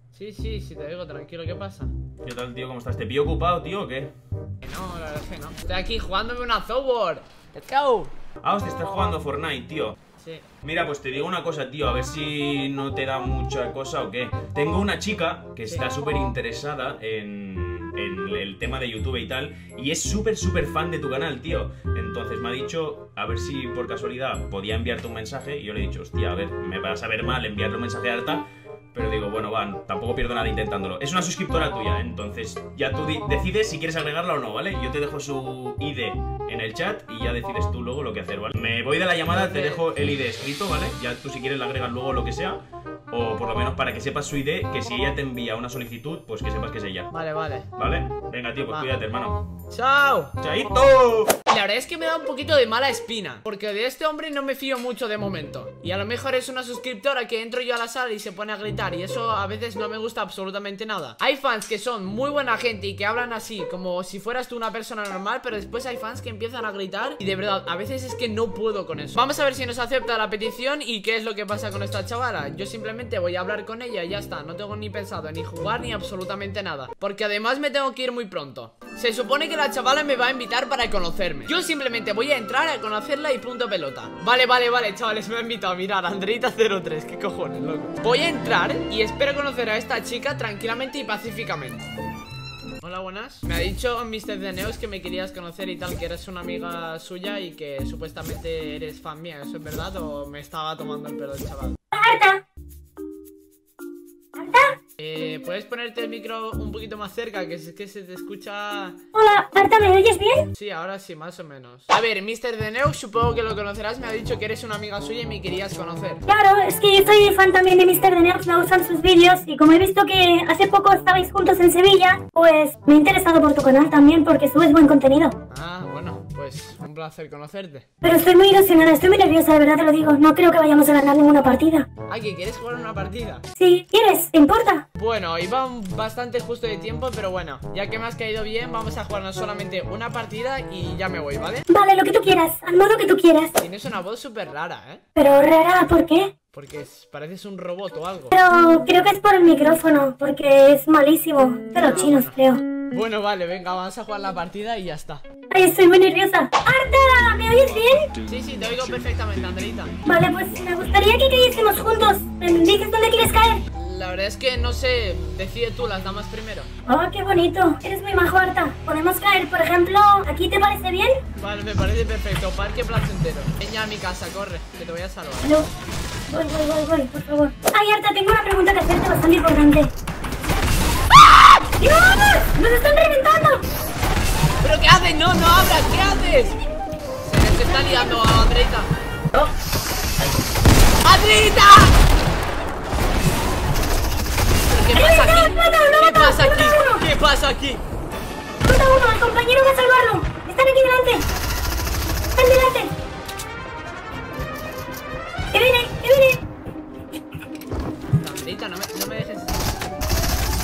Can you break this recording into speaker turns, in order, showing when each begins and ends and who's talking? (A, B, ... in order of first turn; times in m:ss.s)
0:00.1-0:01.9 A
0:02.2-0:04.1 B
0:04.6-0:08.1 A
0:08.4-0:10.0 B
0:10.6-0:47.1 B
0:39.3-0:39.8 A
0:47.1-0:47.7 A
0:47.8-0:49.5 B
0:49.7-0:50.3 A
0:50.4-0:51.4 B
0:51.5-1:31.8 A
1:32.8-1:41.8 A
1:41.9-1:42.4 C
1:44.4-1:44.8 C
1:45.0-1:49.0 A
1:49.1-1:50.5 C
1:50.6-1:56.2 A
1:56.3-2:05.4 C
2:05.5-2:07.8 A
2:08.0-2:11.9 C
2:12.1-2:13.4 A
2:13.6-2:14.9 C
2:15.0-2:21.6 A
2:21.7-2:23.6 C
2:23.6-2:25.0 A
2:25.2-2:26.3 C
2:26.5-2:28.3 A
2:28.3-2:32.6 C
2:31.8-2:32.4 A
2:32.9-2:35.2 A
2:35.5-2:38.1 C
2:38.2-2:40.0 A
2:40.0-2:43.6 C
2:43.7-2:46.7 A
2:46.9-2:51.2 C
2:51.4-2:55.6 A
2:55.4-2:55.7 C
2:56.3-2:59.9 C
3:01.8-3:03.6 C
3:04.6-3:06.6 A
3:07.2-3:09.5 A
3:07.5-3:08.2 C
3:11.0-3:12.0 A
3:14.7-3:17.8 A
3:14.9-3:17.0 C
3:18.6-3:21.2 C
3:22.4-3:22.9 C
3:25.5-3:26.4 C
3:28.2-3:29.6 A